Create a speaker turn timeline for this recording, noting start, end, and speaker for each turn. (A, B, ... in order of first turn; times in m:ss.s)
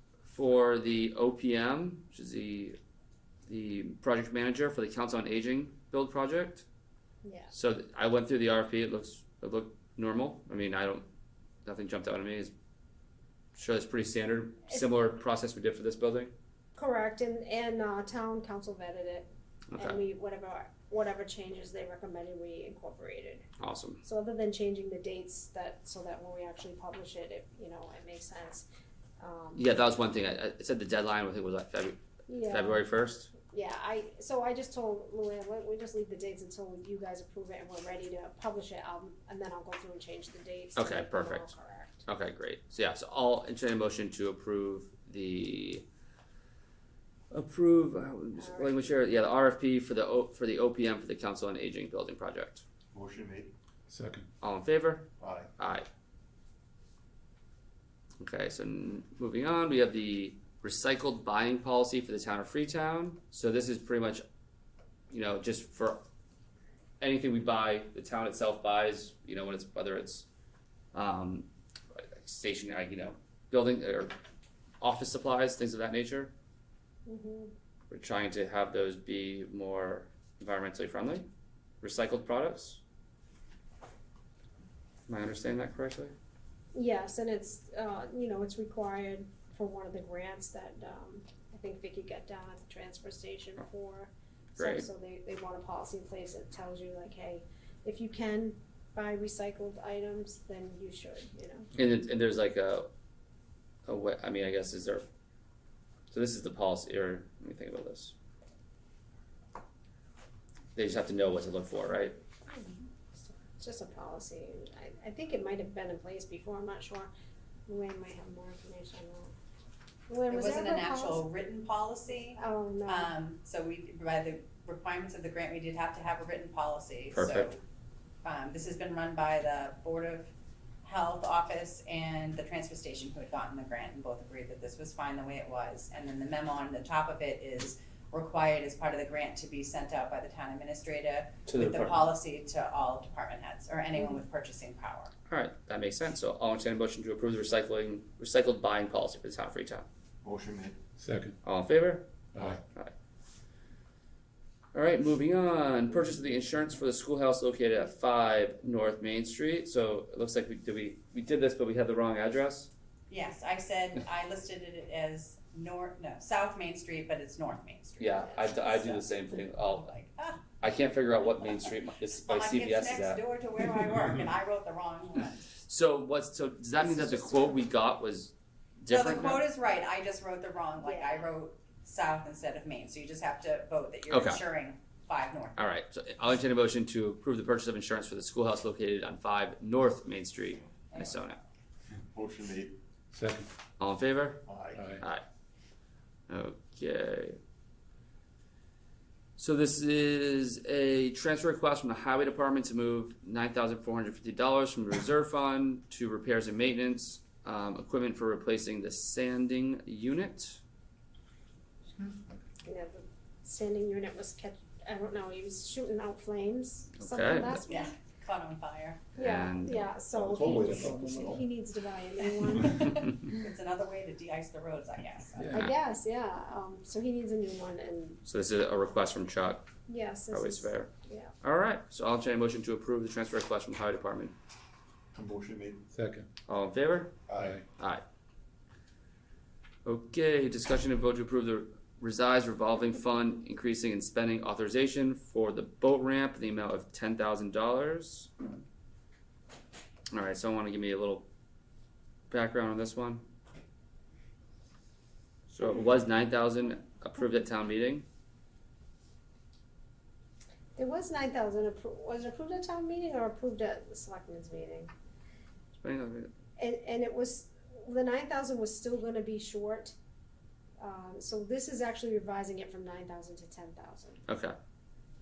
0:00.2-0:02.8 A
0:03.5-0:06.6 A
0:07.2-0:07.5 B
0:07.5-0:11.1 A
0:11.6-0:12.5 A
0:13.6-0:16.3 A
0:16.8-0:23.4 B
0:19.7-0:20.0 A
0:23.6-0:24.0 A
0:24.0-0:28.6 B
0:29.2-0:29.7 B
0:29.6-0:33.3 A
0:32.3-0:42.1 B
0:40.8-0:41.5 A
0:42.1-0:45.8 A
0:47.3-0:52.6 A
0:48.4-0:48.9 B
0:52.9-0:53.5 C
0:53.9-0:54.2 D
0:54.4-0:55.9 A
0:55.2-0:55.5 C
0:58.2-1:04.2 A
1:05.1-1:06.0 A
1:07.0-1:10.3 A
1:10.9-1:14.2 A
1:14.8-1:16.3 A
1:17.1-1:17.5 B
1:17.9-1:21.2 A
1:21.8-1:22.8 A
1:25.1-1:26.2 A
1:26.7-1:41.7 B
1:34.6-1:34.9 A
1:41.8-1:42.9 A
1:43.9-1:45.0 A
1:46.1-1:48.1 A
1:50.8-1:52.2 A
1:52.5-1:57.1 B
1:57.7-1:59.3 B
2:00.1-2:01.2 B
2:00.3-2:07.6 E
2:02.4-2:03.1 B
2:07.1-2:07.5 A
2:08.2-2:10.3 E
2:10.8-2:25.1 E
2:21.5-2:22.0 A
2:25.3-2:29.9 A
2:30.2-2:30.8 C
2:31.0-2:31.3 D
2:31.4-2:32.1 A
2:32.3-2:32.6 C
2:34.7-2:42.7 A
2:43.1-2:50.4 E
2:48.0-2:49.9 A
2:50.6-2:53.2 A
2:51.4-2:55.5 E
2:55.6-2:59.4 A
2:56.9-2:57.5 B
2:58.9-3:05.6 E
3:00.8-3:01.2 B
3:04.1-3:04.4 A
3:05.6-3:11.4 A
3:10.9-3:11.2 E
3:12.1-3:12.8 C
3:13.1-3:13.5 D
3:13.8-3:14.4 A
3:14.4-3:14.9 C
3:14.7-3:15.0 D
3:15.0-3:15.2 A
3:16.3-3:17.4 A
3:19.4-3:30.6 A
3:32.6-3:37.9 B
3:37.0-3:37.6 A
3:37.7-3:39.0 E
3:39.2-3:43.3 B
3:39.2-3:39.9 A
3:40.1-3:41.4 C
3:40.6-3:41.0 D
3:42.4-3:45.7 E
3:45.4-3:45.7 D
3:45.4-3:48.2 B
3:48.2-3:49.7 A
3:49.9-3:51.3 B
3:50.3-3:50.9 A
3:51.4-3:54.3 A
3:55.1-3:55.8 C
3:55.9-3:56.3 D
3:56.5-3:57.1 A
3:57.3-3:57.6 C
3:57.4-3:57.6 D
3:57.8-3:58.0 A
3:59.8-4:08.3 A
4:10.1-4:11.3 A
4:12.3-4:13.2 A
4:15.5-4:18.1 A
4:20.8-4:24.9 B
4:25.8-4:26.3 A
4:26.6-4:30.0 B
4:30.8-4:34.2 B
4:34.3-4:34.6 A